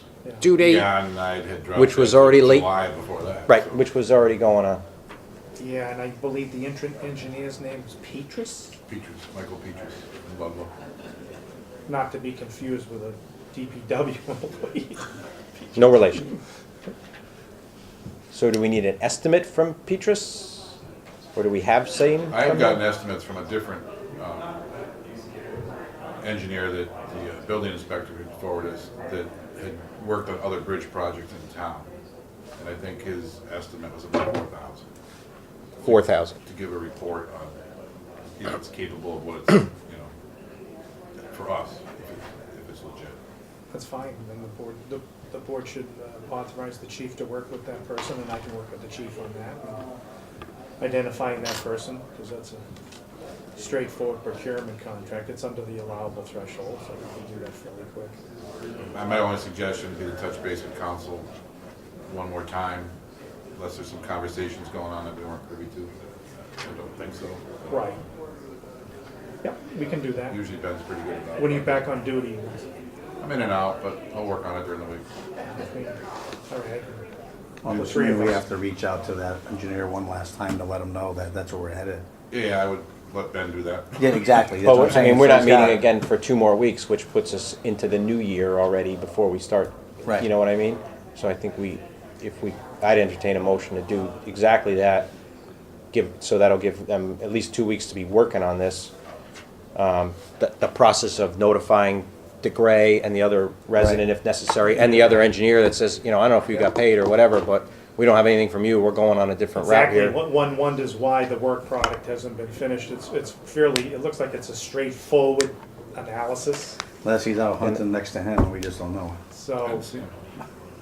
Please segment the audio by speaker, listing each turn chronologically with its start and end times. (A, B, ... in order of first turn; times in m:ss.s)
0:00.2-0:00.5 A
0:00.4-0:00.9 B
0:00.6-0:03.8 C
0:01.7-0:02.7 B
0:03.5-0:04.8 B
0:05.6-0:08.7 A
0:08.9-0:10.7 C
0:11.9-0:16.4 A
0:15.8-0:16.2 B
0:18.3-0:20.7 B
0:21.3-0:22.8 B
0:22.3-0:24.5 C
0:26.2-0:31.9 C
0:32.6-0:34.8 C
0:35.8-0:37.5 C
0:35.8-0:36.3 B
0:38.4-0:40.1 C
0:41.3-0:43.2 C
0:43.7-0:49.8 A
0:50.8-0:52.6 A
0:53.6-0:58.2 A
0:58.8-1:01.3 C
1:02.1-1:02.9 C
1:03.5-1:05.9 C
1:06.6-1:07.6 C
1:07.7-1:08.0 A
1:09.4-1:10.4 A
1:10.3-1:11.9 C
1:11.4-1:12.6 A
1:13.2-1:15.0 C
1:15.4-1:17.0 A
1:17.6-1:22.0 D
1:17.7-1:18.4 A
1:22.3-1:24.4 C
1:24.0-1:25.9 D
1:24.6-1:35.1 B
1:35.9-1:38.9 B
1:39.7-1:50.2 B
1:43.8-1:44.0 D
1:44.8-1:45.2 A
1:49.5-1:56.8 A
1:57.0-1:59.2 D
1:59.3-1:59.8 A
1:59.6-2:00.1 C